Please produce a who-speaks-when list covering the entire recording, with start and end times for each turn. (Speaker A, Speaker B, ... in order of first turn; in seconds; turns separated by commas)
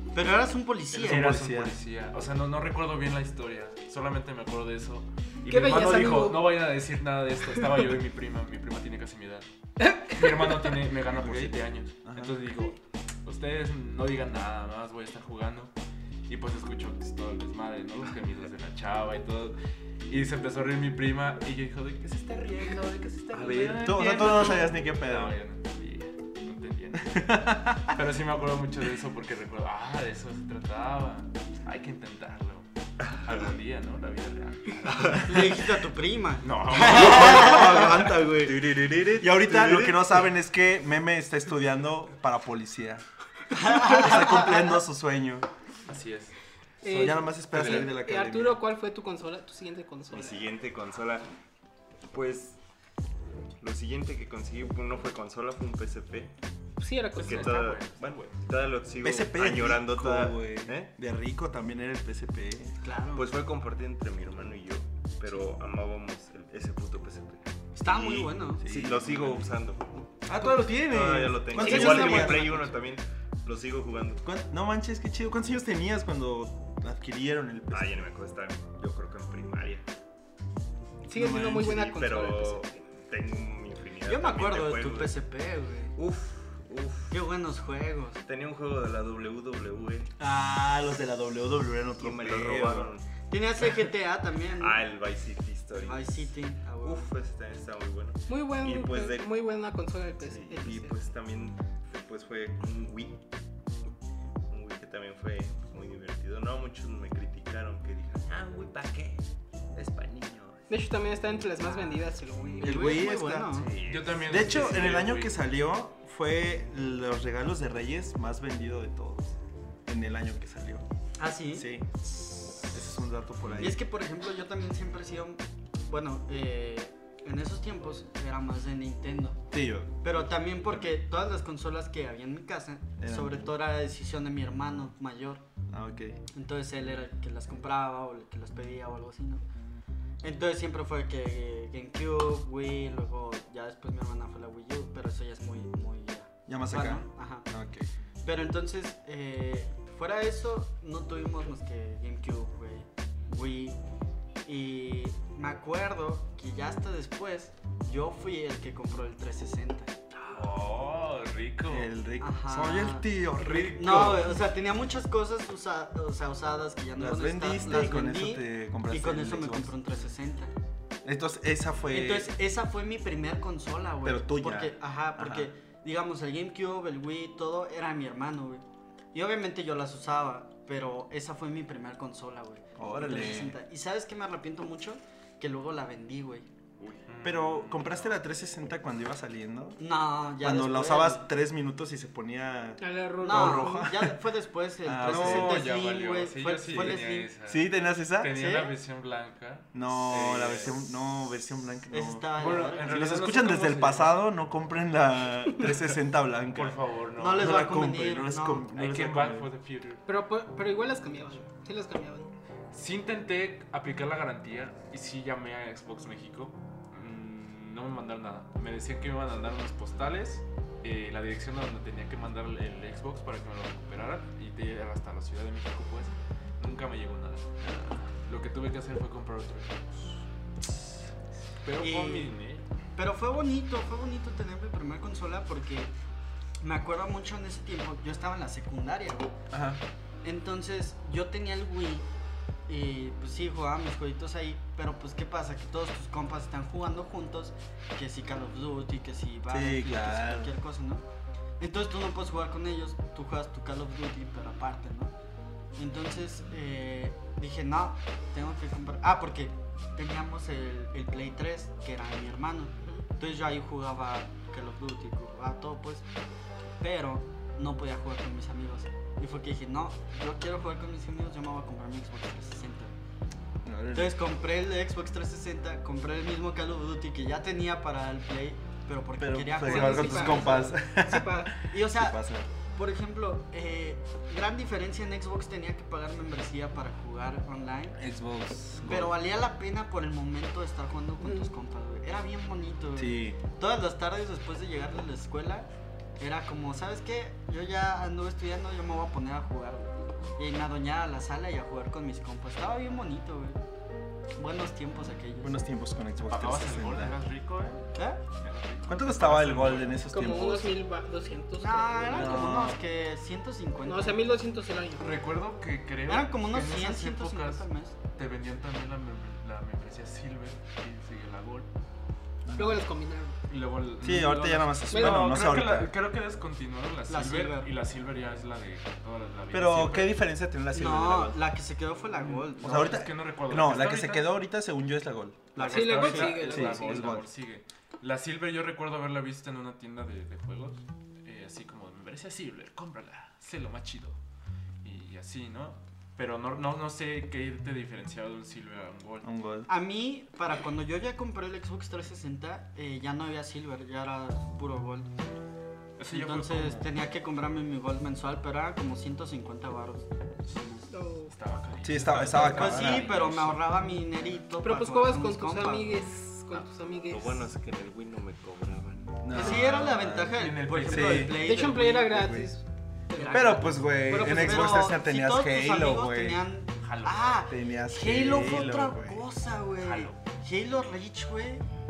Speaker A: 0.1-1.2, Speaker B: 0.9-9.5, Speaker C: 1.0-1.8, Speaker D: 5.5-6.5, Speaker D: 9.9-10.2, Speaker B: 10.0-15.7, Speaker C: 11.2-12.4, Speaker B: 16.3-19.6, Speaker B: 20.1-35.6, Speaker E: 23.3-24.2, Speaker C: 23.8-25.4, Speaker C: 27.1-28.0, Speaker E: 34.9-35.3, Speaker A: 35.2-38.1, Speaker B: 36.4-38.1, Speaker C: 36.8-45.5, Speaker E: 38.4-40.2, Speaker A: 43.5-44.7, Speaker B: 45.9-46.4, Speaker D: 46.8-50.5, Speaker C: 46.8-48.6, Speaker B: 47.5-47.9, Speaker E: 50.1-51.3, Speaker E: 52.1-52.6, Speaker E: 53.6-56.4, Speaker D: 56.8-57.6, Speaker B: 57.2-58.3, Speaker E: 57.2-60.9, Speaker C: 59.0-62.8, Speaker A: 62.8-63.3, Speaker E: 63.1-74.2, Speaker A: 67.8-68.7, Speaker C: 68.6-69.5, Speaker C: 70.2-72.5, Speaker D: 71.5-72.7, Speaker C: 74.2-78.0, Speaker E: 77.7-79.9, Speaker D: 81.1-82.6, Speaker C: 81.1-81.8, Speaker E: 81.6-85.1, Speaker A: 84.1-86.0, Speaker E: 86.0-87.2, Speaker A: 87.1-88.2, Speaker E: 88.2-90.1, Speaker C: 90.2-92.9, Speaker E: 92.0-93.1, Speaker A: 93.3-94.8, Speaker E: 94.6-96.3, Speaker A: 95.8-97.1, Speaker E: 96.8-99.3, Speaker D: 98.3-101.0, Speaker E: 100.2-103.2, Speaker E: 104.5-109.2, Speaker E: 109.8-110.6, Speaker D: 110.7-113.0, Speaker A: 112.6-113.7, Speaker C: 112.6-113.6, Speaker E: 113.5-114.9, Speaker B: 113.9-115.4, Speaker C: 114.3-119.3, Speaker C: 119.9-120.8, Speaker A: 121.2-121.7, Speaker C: 121.5-121.9, Speaker C: 122.7-123.8, Speaker A: 123.6-129.4, Speaker C: 129.5-129.9, Speaker A: 130.0-135.4, Speaker C: 133.0-133.5, Speaker C: 135.7-136.2, Speaker A: 136.3-139.4, Speaker A: 140.2-147.5, Speaker C: 146.5-147.9, Speaker A: 148.2-153.8, Speaker A: 154.4-160.4, Speaker B: 160.3-161.9, Speaker C: 161.7-164.4, Speaker A: 162.2-170.5, Speaker B: 163.4-164.3, Speaker C: 167.0-169.7, Speaker C: 171.1-172.3, Speaker A: 171.9-186.5, Speaker C: 174.0-175.5, Speaker C: 182.8-183.6, Speaker E: 186.8-187.1, Speaker B: 187.1-188.1, Speaker C: 187.2-189.8, Speaker A: 189.8-191.3, Speaker C: 190.4-194.2, Speaker D: 192.8-193.8, Speaker A: 193.2-197.3, Speaker C: 194.8-195.7, Speaker B: 195.0-197.7, Speaker C: 197.5-198.3, Speaker B: 198.2-200.8, Speaker A: 198.3-198.8, Speaker C: 199.7-206.8, Speaker A: 201.9-203.2, Speaker B: 202.4-204.2, Speaker B: 206.5-207.7, Speaker A: 207.2-208.7, Speaker C: 207.3-209.5, Speaker B: 208.8-210.0, Speaker D: 210.1-212.3, Speaker B: 212.7-230.3, Speaker C: 227.6-228.0, Speaker B: 231.6-232.7, Speaker A: 231.8-232.3, Speaker A: 233.0-235.9, Speaker A: 236.6-239.3, Speaker C: 239.5-239.8, Speaker A: 240.2-242.1, Speaker A: 242.7-251.0, Speaker C: 249.5-250.5, Speaker A: 251.6-255.1, Speaker A: 255.8-266.1, Speaker A: 266.8-272.9, Speaker C: 273.6-274.2, Speaker A: 273.9-280.8, Speaker C: 279.2-282.5, Speaker D: 279.6-281.5, Speaker A: 281.7-282.2, Speaker A: 282.7-288.0, Speaker C: 288.0-289.2, Speaker A: 288.8-303.6, Speaker D: 291.2-291.5, Speaker C: 293.0-293.4, Speaker A: 304.4-305.6, Speaker C: 305.4-307.2, Speaker B: 306.2-310.0, Speaker C: 308.9-310.8, Speaker D: 310.1-312.5, Speaker A: 311.6-314.3, Speaker C: 312.1-312.8, Speaker D: 313.9-315.1, Speaker B: 315.0-321.7, Speaker A: 316.1-318.0, Speaker C: 322.5-322.8, Speaker D: 322.5-323.4, Speaker B: 323.5-330.2, Speaker C: 324.0-325.9, Speaker D: 324.9-325.3, Speaker A: 327.1-327.7, Speaker C: 329.5-331.4, Speaker A: 330.7-333.0, Speaker B: 332.2-334.3, Speaker C: 332.2-335.5, Speaker A: 335.6-336.6, Speaker B: 335.6-344.2, Speaker D: 335.7-337.2, Speaker C: 336.4-337.3, Speaker B: 344.8-349.3, Speaker C: 349.2-349.7, Speaker A: 349.7-355.1, Speaker B: 356.0-356.9, Speaker A: 356.1-360.1, Speaker B: 360.4-364.3, Speaker D: 360.9-361.3, Speaker C: 361.8-363.1, Speaker A: 362.5-366.0, Speaker D: 364.6-367.5, Speaker E: 367.1-369.3, Speaker C: 369.2-371.4, Speaker A: 369.3-372.4, Speaker B: 369.3-371.5, Speaker D: 371.4-374.8, Speaker C: 372.2-372.5, Speaker A: 373.1-381.6, Speaker C: 373.3-376.4, Speaker B: 376.8-377.5, Speaker C: 377.5-379.2, Speaker B: 379.8-380.2